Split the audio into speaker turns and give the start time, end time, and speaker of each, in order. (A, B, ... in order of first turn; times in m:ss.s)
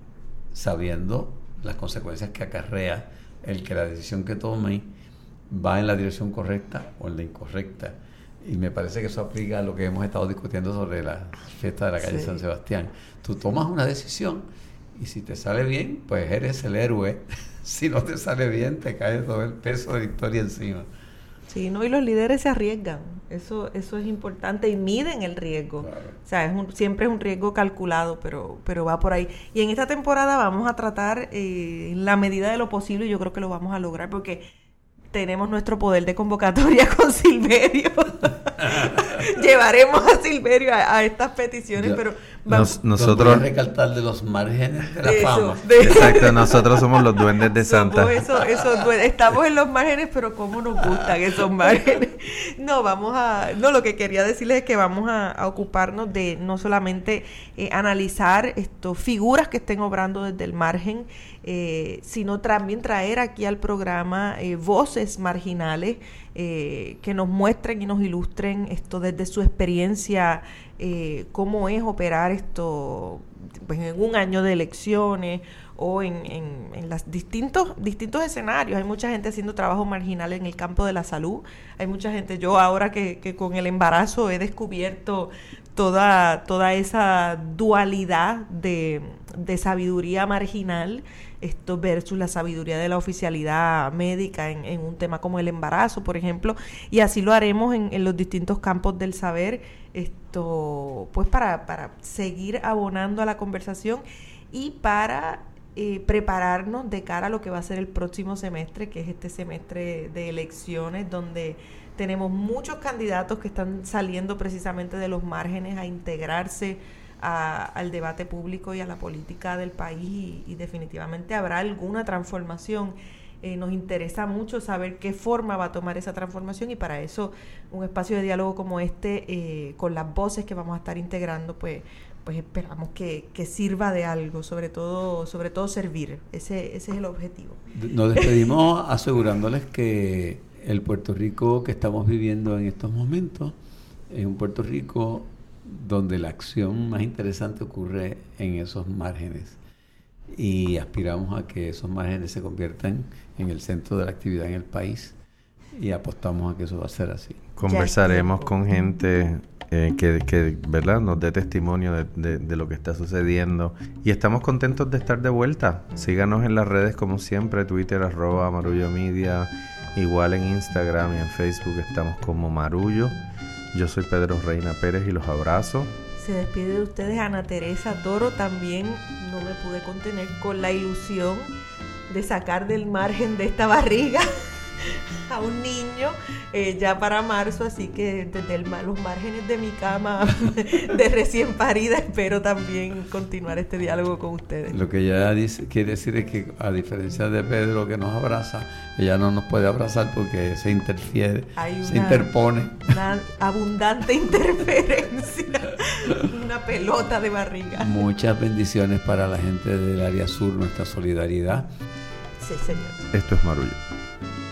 0:00.5-0:04.9 A
0:05.5-0:20.9 A
0:12.0-0:12.4 B
0:21.5-0:34.4 B
0:25.8-0:26.2 A
0:35.1-0:42.8 B
0:42.5-0:43.4 C
0:42.9-0:45.8 A
0:45.0-2:17.6 B
0:45.8-0:48.3 C
2:17.7-2:23.5 A
2:24.1-2:29.6 A
2:30.3-2:35.2 A
2:35.7-2:37.4 A
2:37.6-2:53.1 C
2:37.6-2:38.5 B
2:53.7-2:55.9 C
2:56.2-3:01.5 B
3:02.1-3:04.3 B
3:04.8-3:14.8 B
3:14.7-3:23.0 A
3:21.6-3:22.3 B
3:22.8-3:28.0 B
3:27.8-3:31.7 A
3:32.4-3:33.1 B
3:33.1-3:33.8 C